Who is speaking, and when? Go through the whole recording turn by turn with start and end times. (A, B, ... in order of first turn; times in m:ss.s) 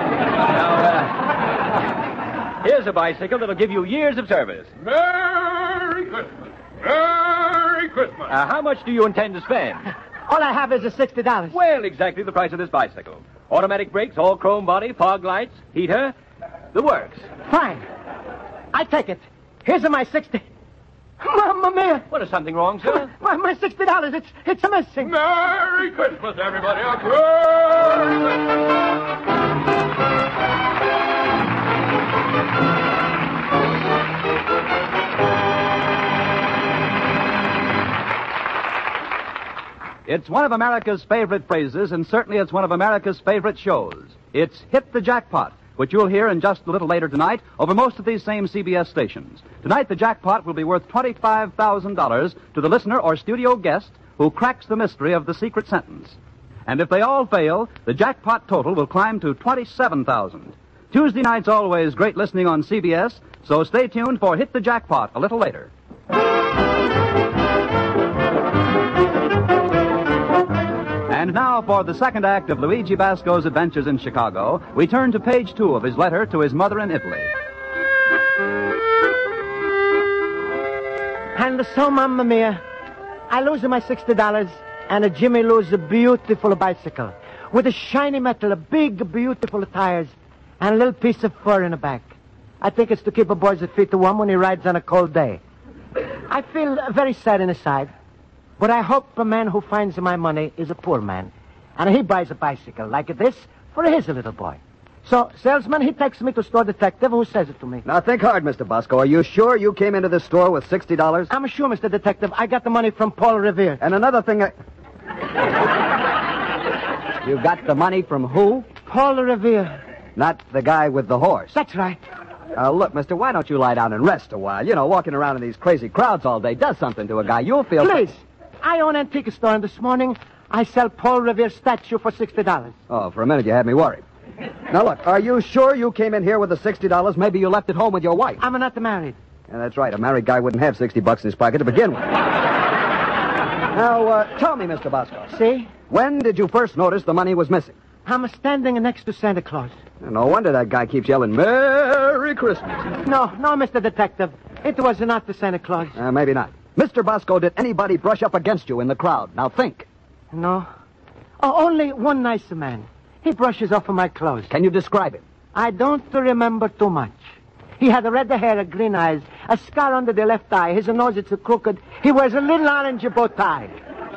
0:00.4-0:01.2 A
0:02.6-0:04.7 A
0:04.8-0:08.3 B
0:08.3-0:09.9 A
0:10.3-0:11.6 C
0:11.5-0:16.1 A
0:16.7-0:17.2 A
0:17.4-0:17.8 C
0:18.7-0:20.4 C
0:21.2-0:22.1 C
0:22.1-0:23.1 A
0:22.8-0:25.1 C
0:25.0-0:28.3 B
0:40.0-1:05.7 D
1:11.1-1:17.3 D
1:21.3-1:22.6 C
1:23.3-1:35.4 C
1:36.3-1:37.9 C
1:38.6-1:47.8 C
1:47.8-1:51.3 E
1:51.3-1:53.8 C
1:53.8-1:54.5 E
1:57.2-1:58.7 E
1:58.8-1:59.8 C
2:00.2-2:01.5 E
2:01.5-2:02.0 C
2:02.6-2:08.0 E
2:07.8-2:12.7 C
2:12.9-2:14.0 E
2:14.7-2:18.4 E
2:18.4-2:19.2 C
2:19.5-2:22.1 E
2:23.7-2:25.3 E
2:25.3-2:25.7 C
2:25.9-2:27.7 E
2:28.0-2:29.8 C
2:30.0-2:32.9 E
2:33.0-2:36.0 C
2:36.0-2:39.9 E
2:40.3-2:40.7 C
2:41.4-2:44.5 C
2:44.5-2:45.2 E
2:45.5-2:47.2 C
2:47.8-2:53.7 C